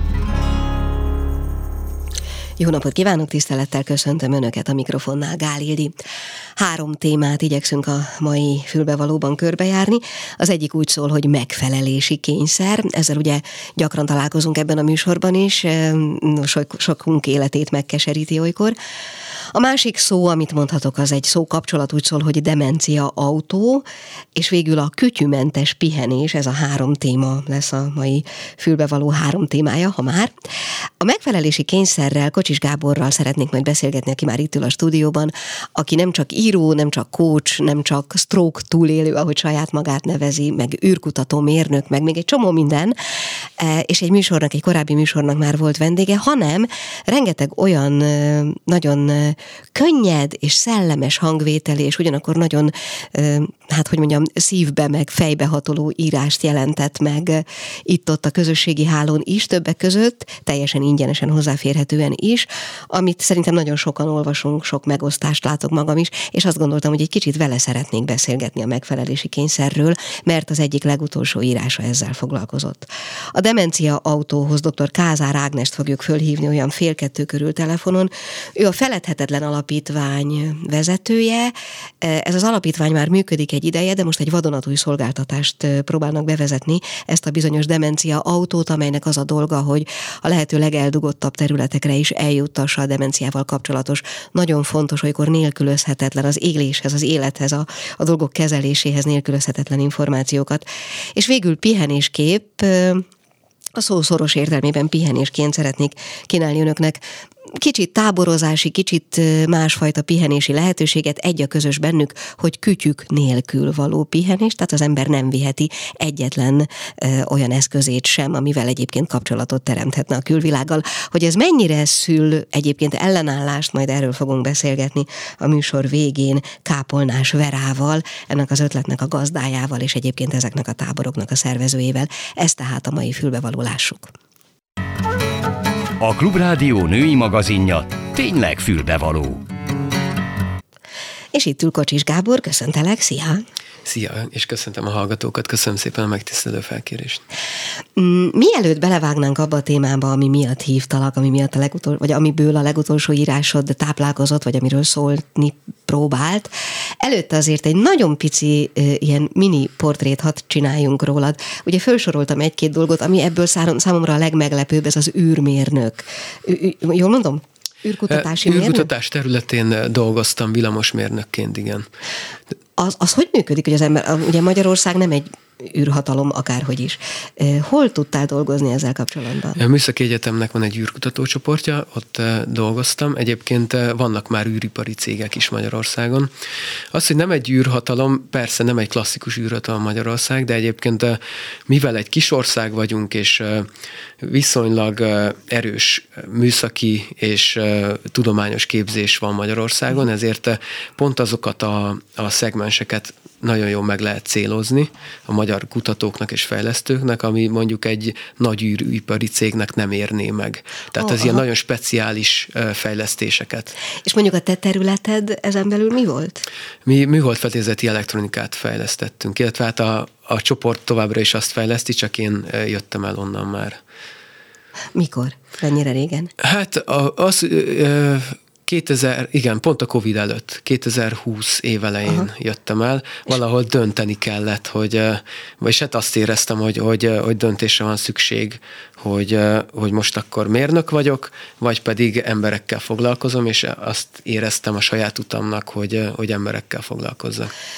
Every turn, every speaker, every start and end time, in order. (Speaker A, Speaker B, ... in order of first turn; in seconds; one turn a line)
Speaker A: 2.6-5.9
Speaker A: 6.6-18.8
Speaker A: 19.5-30.3
Speaker A: 31.0-103.0
Speaker A: 103.8-107.0
Speaker A: 107.5-134.1
Speaker B: 136.0-139.4
Speaker A: 141.3-143.4
Speaker C: 143.8-147.2
Speaker A: 147.9-168.9
Speaker C: 168.1-171.9
Speaker A: 172.8-179.6
Speaker C: 179.6-186.3
Speaker C: 186.9-193.7
Speaker C: 194.2-213.7
Speaker A: 211.0-211.4
Speaker A: 214.0-216.4
Speaker C: 216.8-223.8
Speaker A: 224.9-226.3
Speaker C: 226.4-247.5